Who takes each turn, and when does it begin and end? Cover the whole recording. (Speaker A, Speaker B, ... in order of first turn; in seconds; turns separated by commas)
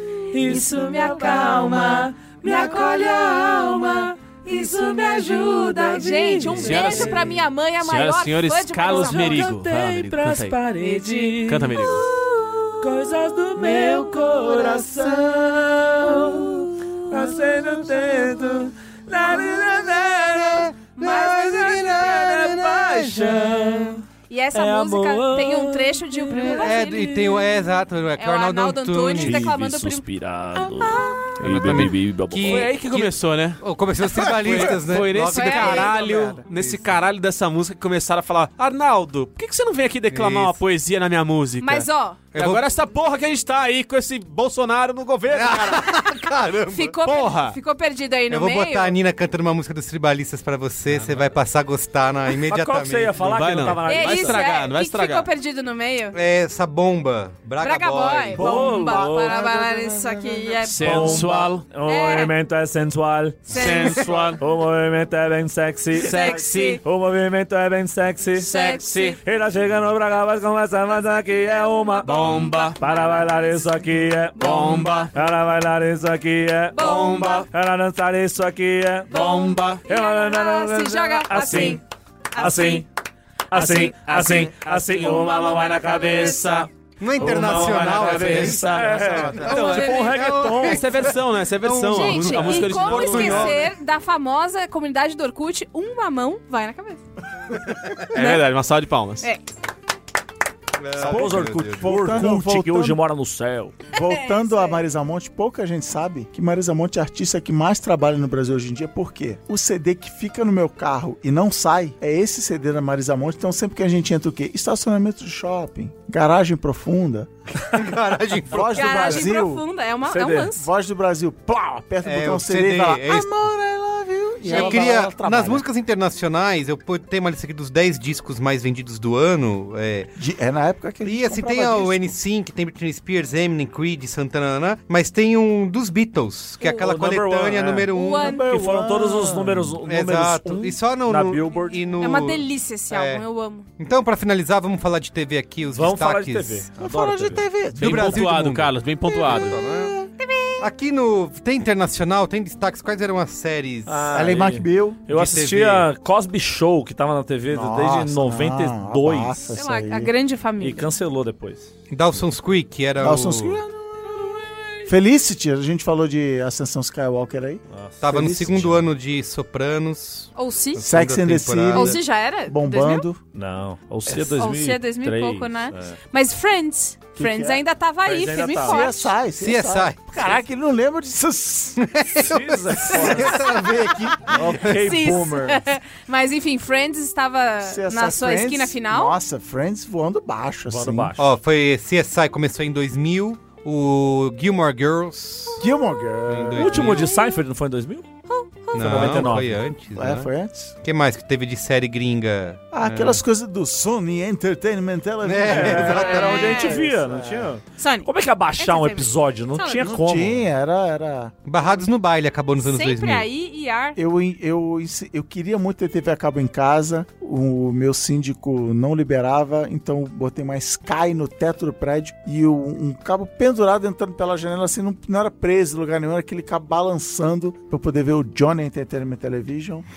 Speaker A: 0.3-7.2, Speaker B: 0.4-9.5, Speaker C: 6.5-10.6, Speaker A: 8.9-26.9, Speaker C: 11.4-12.1, Speaker B: 11.8-12.6, Speaker D: 19.3-23.6, Speaker B: 21.0-22.4, Speaker B: 24.3-30.1, Speaker D: 26.5-29.5, Speaker A: 29.2-32.7, Speaker B: 30.6-31.3, Speaker D: 31.4-36.9, Speaker C: 32.4-33.6, Speaker E: 34.1-35.0, Speaker C: 34.3-46.0, Speaker B: 35.3-35.9, Speaker E: 35.7-36.5, Speaker D: 40.1-40.6, Speaker B: 41.6-42.2, Speaker D: 42.3-42.7, Speaker D: 45.3-47.0, Speaker B: 46.7-49.0, Speaker C: 47.0-47.6, Speaker D: 48.3-53.2, Speaker C: 50.9-51.2, Speaker A: 52.5-54.4, Speaker C: 53.2-55.3, Speaker B: 53.9-56.2, Speaker D: 56.1-59.0, Speaker B: 57.6-62.3, Speaker A: 58.4-59.4, Speaker E: 58.5-60.6, Speaker C: 60.6-61.7, Speaker A: 60.8-68.6, Speaker B: 63.5-64.2, Speaker C: 63.5-64.4, Speaker C: 65.9-66.8, Speaker B: 66.0-66.8, Speaker C: 68.4-69.2, Speaker B: 68.5-69.2, Speaker A: 69.2-81.8, Speaker B: 71.9-73.7, Speaker C: 72.0-72.8, Speaker C: 74.4-75.1, Speaker B: 76.8-77.4, Speaker C: 76.8-77.5, Speaker C: 79.1-79.9, Speaker B: 79.1-82.9, Speaker A: 82.3-82.9, Speaker A: 83.5-86.6, Speaker C: 83.5-93.6, Speaker B: 85.1-86.5, Speaker D: 87.0-93.7, Speaker A: 87.2-90.8, Speaker E: 89.0-89.4, Speaker B: 89.4-90.2, Speaker B: 91.9-97.0, Speaker C: 98.1-99.3, Speaker B: 98.1-98.5, Speaker D: 100.8-102.2, Speaker E: 101.0-103.0, Speaker A: 101.0-103.8, Speaker E: 103.9-117.6, Speaker B: 104.0-104.8, Speaker D: 117.7-119.2, Speaker E: 118.5-119.6, Speaker B: 118.6-120.7, Speaker A: 120.1-120.5, Speaker E: 120.5-125.7, Speaker D: 122.0-123.3, Speaker D: 124.4-130.1, Speaker B: 124.5-124.8, Speaker E: 130.2-132.2, Speaker D: 131.0-138.4, Speaker A: 136.6-141.8, Speaker B: 137.9-138.5, Speaker E: 138.2-139.8, Speaker D: 139.8-143.2, Speaker B: 142.0-143.7, Speaker D: 143.8-146.7, Speaker A: 145.7-147.5, Speaker E: 146.8-148.2, Speaker C: 147.8-149.6, Speaker D: 147.8-149.9, Speaker E: 149.3-150.1, Speaker B: 150.2-150.6, Speaker D: 150.6-154.4, Speaker A: 153.9-159.5, Speaker E: 154.1-155.1, Speaker D: 155.1-155.9, Speaker E: 157.5-160.1, Speaker B: 159.5-160.9, Speaker A: 160.6-161.7, Speaker D: 161.9-163.6, Speaker E: 163.0-163.7, Speaker A: 164.1-164.9, Speaker E: 164.9-168.9, Speaker A: 167.7-168.0, Speaker D: 168.0-172.0, Speaker B: 170.4-170.8, Speaker E: 170.8-173.2, Speaker B: 171.7-173.1, Speaker A: 173.3-176.0, Speaker B: 174.1-179.1, Speaker E: 177.2-177.6, Speaker A: 178.1-178.9, Speaker E: 178.5-181.8, Speaker D: 179.4-180.0, Speaker D: 181.8-184.8, Speaker A: 182.1-183.5, Speaker E: 183.0-184.7, Speaker A: 184.3-185.6, Speaker B: 184.7-189.2, Speaker E: 187.6-191.2, Speaker A: 190.7-191.3, Speaker D: 191.2-195.7, Speaker E: 195.6-197.0, Speaker D: 196.3-197.1, Speaker A: 196.6-198.1, Speaker B: 196.9-197.4, Speaker B: 198.3-199.1, Speaker D: 198.7-200.3, Speaker A: 198.8-199.6, Speaker E: 198.9-200.7, Speaker D: 200.8-203.2, Speaker E: 202.7-207.5, Speaker D: 205.2-206.8, Speaker A: 205.4-210.4, Speaker B: 206.0-206.8, Speaker B: 207.8-209.9, Speaker E: 209.8-211.3, Speaker D: 211.5-213.3, Speaker B: 212.6-214.0, Speaker E: 214.0-229.8